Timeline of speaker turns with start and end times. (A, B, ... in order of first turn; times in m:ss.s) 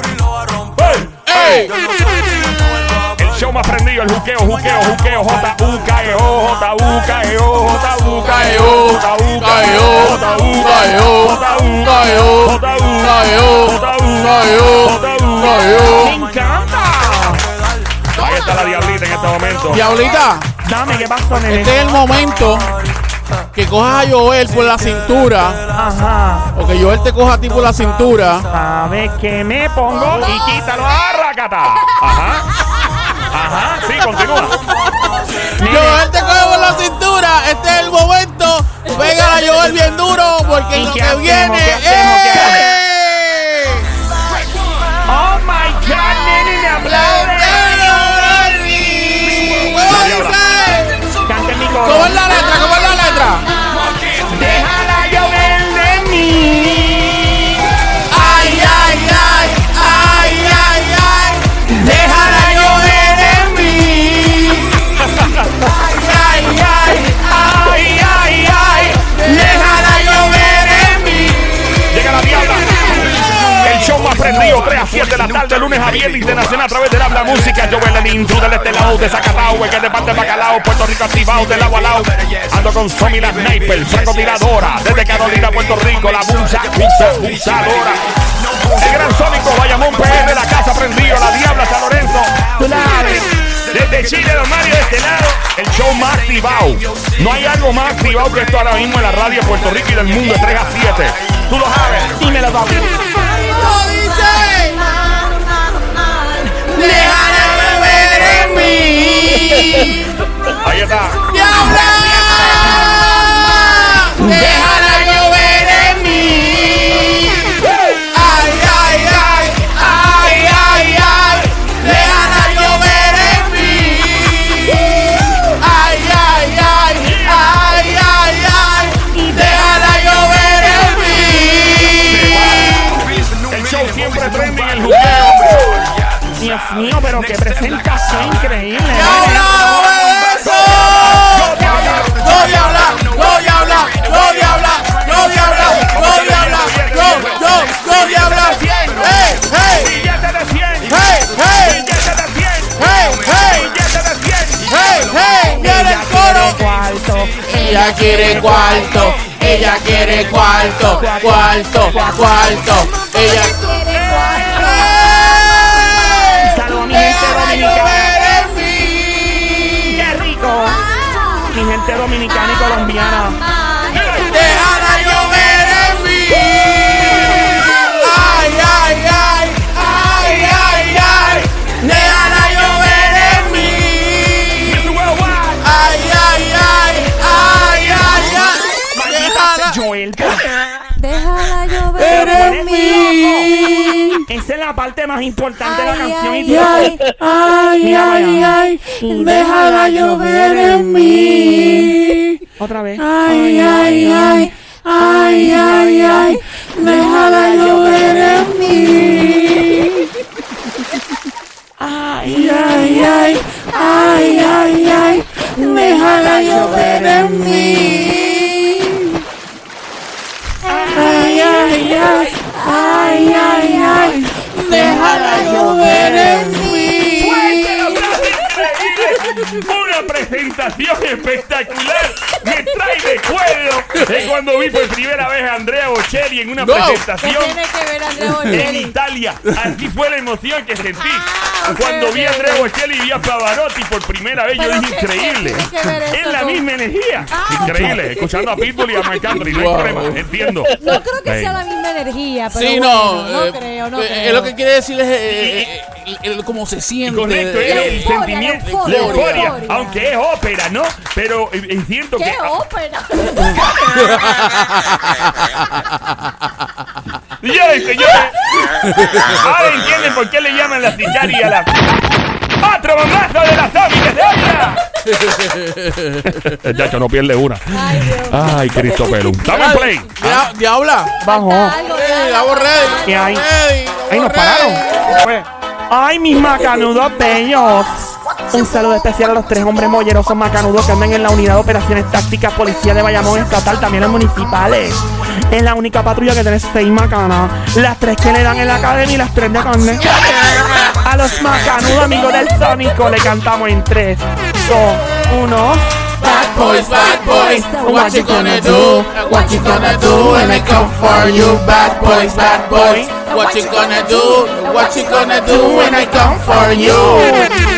0:00.8-0:01.6 A
0:01.2-0:01.8 B
0:03.1-0:16.1 A
0:08.3-0:16.2 B
0:15.9-0:17.5 C
0:18.1-0:19.9 A
0:19.7-0:20.5 B
0:20.6-0:21.9 C
0:21.4-0:22.8 B
0:23.5-0:25.7 B
0:25.7-0:26.5 C
0:26.5-0:28.5 B
0:28.5-0:30.6 C
0:29.9-0:30.7 D
0:30.2-0:32.5 A
0:31.8-0:33.3 D
0:33.3-0:34.6 A
0:34.3-0:44.1 B
0:35.6-0:36.0 C
0:38.8-0:39.3 D
0:40.7-0:42.7 C
0:45.0-0:48.2 C
0:46.7-0:51.2 B
0:49.8-0:50.4 A
0:51.2-0:52.3 C
0:51.8-0:53.5 B
0:52.2-0:54.2 D
0:54.2-0:57.8 C
0:58.1-1:05.1 B
1:05.0-1:05.5 A
1:05.6-1:12.0 B
1:08.1-1:08.6 A
1:09.1-1:10.4 C
1:11.9-1:28.1 A
1:12.6-1:13.6 B
1:28.8-1:32.6 A
1:32.5-1:33.4 C
1:33.5-1:42.3 A
1:42.1-1:43.1 C
1:43.0-1:47.4 D
1:43.1-1:44.9 B
1:46.6-1:50.2 B
1:46.8-1:47.6 C
1:50.6-1:51.4 A
1:51.2-2:13.1 B
1:51.3-1:54.2 D
1:54.2-1:55.1 C
1:56.1-1:57.5 C
2:07.0-2:07.5 A
2:09.1-2:10.0 C
2:11.8-2:15.7 A
2:15.0-2:15.8 B
2:16.4-2:19.7 C
2:18.9-2:30.0 B
2:20.4-2:23.0 A
2:24.9-2:35.0 A
2:30.8-2:32.0 B
2:32.7-2:33.8 B
2:34.6-2:36.6 B
2:35.4-2:35.7 D
2:35.5-2:39.3 C
2:37.5-2:41.2 D
2:37.5-2:50.0 B
2:40.8-2:42.6 C
2:41.7-2:48.7 D
2:46.4-2:48.2 C
2:49.9-2:50.8 C
2:50.6-2:51.6 D
2:51.5-2:53.4 C
2:52.2-2:58.8 D
2:53.9-3:05.0 B
2:59.8-3:00.5 D
3:01.9-3:03.7 D
3:04.6-3:05.6 A
3:05.6-3:09.8 B
3:08.0-3:08.9 D
3:08.9-3:10.5 C
3:10.9-3:13.8 D
3:12.0-3:14.3 B
3:12.1-3:13.5 C
3:14.3-3:17.0 C
3:15.6-3:17.0 D
3:16.4-3:22.4 B
3:17.8-3:22.0 C
3:22.6-3:29.5 C
3:23.0-3:30.1 B
3:28.9-3:29.9 D
3:31.8-3:33.3 C
3:32.2-3:39.2 B
3:33.0-3:35.2 D
3:35.6-3:38.1 C
3:40.6-3:41.7 C
3:40.6-3:44.1 D
3:40.9-3:48.0 B
3:44.6-3:46.7 C
3:44.7-3:49.6 D
3:47.2-3:57.6 A
3:52.2-3:52.8 D
3:56.6-3:57.0 B
3:57.2-3:58.9 D
3:58.3-3:58.6 B
3:58.5-4:11.6 A
4:01.0-4:02.7 D
4:04.5-4:06.6 D
4:07.3-4:09.4 D
4:07.6-4:08.0 B
4:09.3-4:10.3 B
4:10.7-4:14.5 D
4:12.5-4:19.5 B
4:15.3-4:15.7 A
4:17.0-4:22.5 A
4:17.6-4:20.1 D
4:22.2-4:23.7 D
4:23.8-4:26.3 B
4:27.4-4:31.7 A
4:28.8-4:29.4 B
4:32.6-4:34.8 A
4:35.0-4:36.6 B
4:36.2-4:40.5 A
4:37.7-4:39.5 D
4:39.4-4:41.2 B
4:41.2-4:41.8 C
4:41.2-4:43.4 D
4:41.8-4:45.2 B
4:43.0-4:43.5 C
4:44.1-5:00.1 C
5:01.0-5:06.2 C
5:06.2-5:17.5 B
5:06.2-5:10.6 D
5:07.2-5:13.2 C
5:13.2-5:16.2 D
5:15.4-5:17.6 C